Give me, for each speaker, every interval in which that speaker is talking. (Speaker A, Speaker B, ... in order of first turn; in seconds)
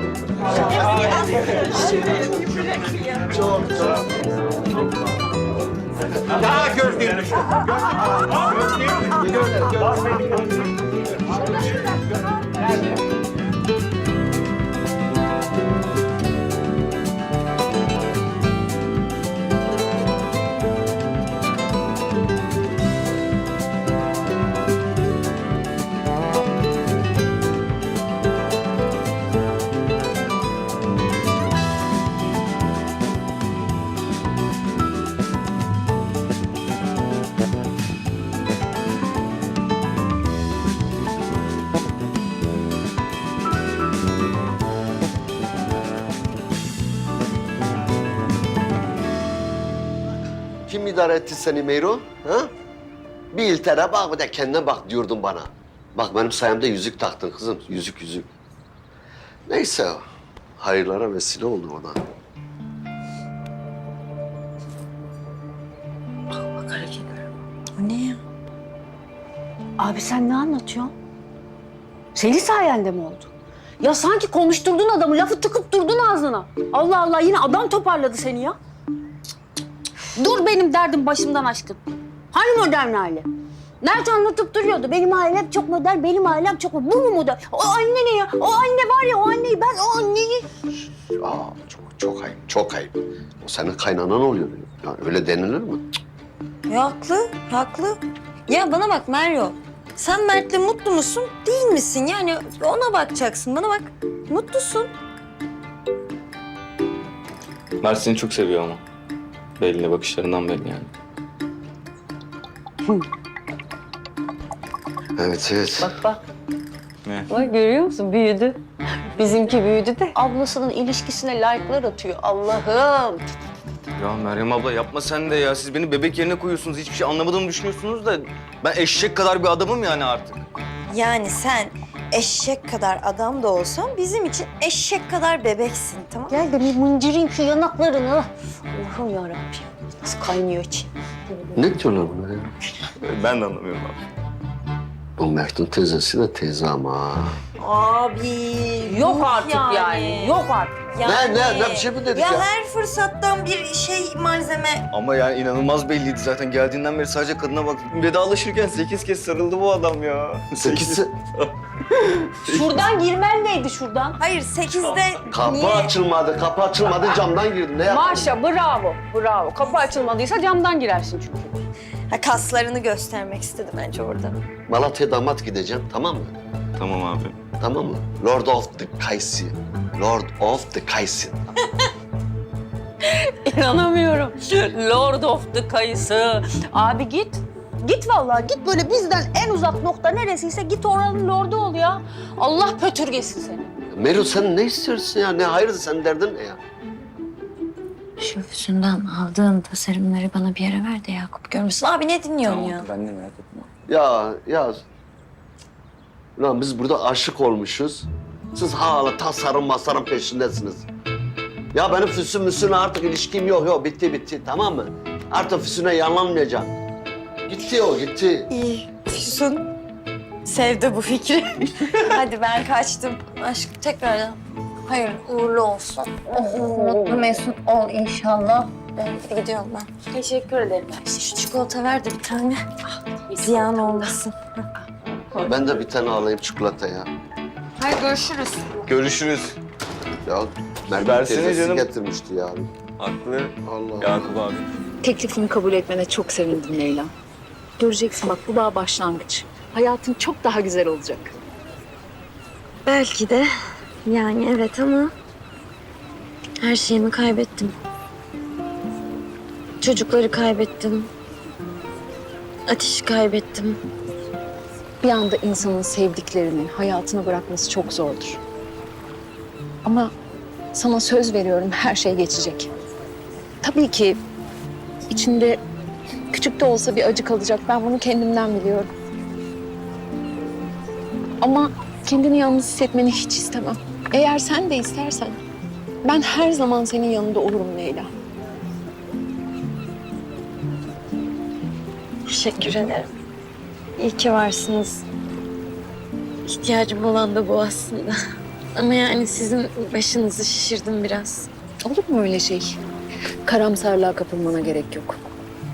Speaker A: 3.3-4.0, 8.9-9.7, 50.7-52.5, 53.3-58.3, 59.5-60.0, 60.6-62.0, 91.2-95.8, 115.2-115.9, 141.5-142.5, 145.2-147.3, 151.0-152.4, 160.6-161.1, 165.3-168.3, 174.7-176.3, 177.6-181.4, 193.9-196.6, 203.9-204.8, 206.4-210.8, 211.7-216.7, 217.5-218.5, 235.4-237.1, 240.2-242.7, 243.6-244.3
Speaker B: 66.3-67.2, 69.8-70.9, 72.1-73.3, 73.8-78.6, 80.2-81.8, 82.3-83.3, 83.8-90.5, 117.3-118.6, 119.2-123.2, 136.3-140.9, 148.8-150.8, 162.4-164.2, 167.9-171.6, 183.1-193.7, 226.3-227.2, 230.1-231.1, 233.4-233.9
Speaker C: 67.8-68.2, 96.7-104.9, 130.9-136.3, 147.6-150.0, 150.9-154.8, 164.2-165.9, 172.1-174.4, 198.2-202.9, 218.5-219.7, 220.4-229.9, 231.1-232.6, 233.4-234.3, 237.8-238.8, 252.8-253.5, 254.0-255.1, 256.6-257.7, 259.8-261.1, 262.7-263.8, 292.2-293.1, 294.0-295.0, 296.5-298.1, 298.7-301.5
Speaker D: 107.8-108.8, 109.6-110.9, 124.0-130.4, 143.0-144.0, 154.9-161.5, 162.4-162.8, 176.8-177.3, 202.4-203.4, 238.9-239.6, 240.9-241.9, 243.0-244.6
Speaker E: 245.0-247.1, 247.8-251.3, 265.0-268.4, 269.8-270.1, 270.7-272.7, 273.6-274.2, 275.1-275.6, 276.3-278.9, 281.4-285.4, 286.0-288.1, 301.8-302.8, 303.4-305.2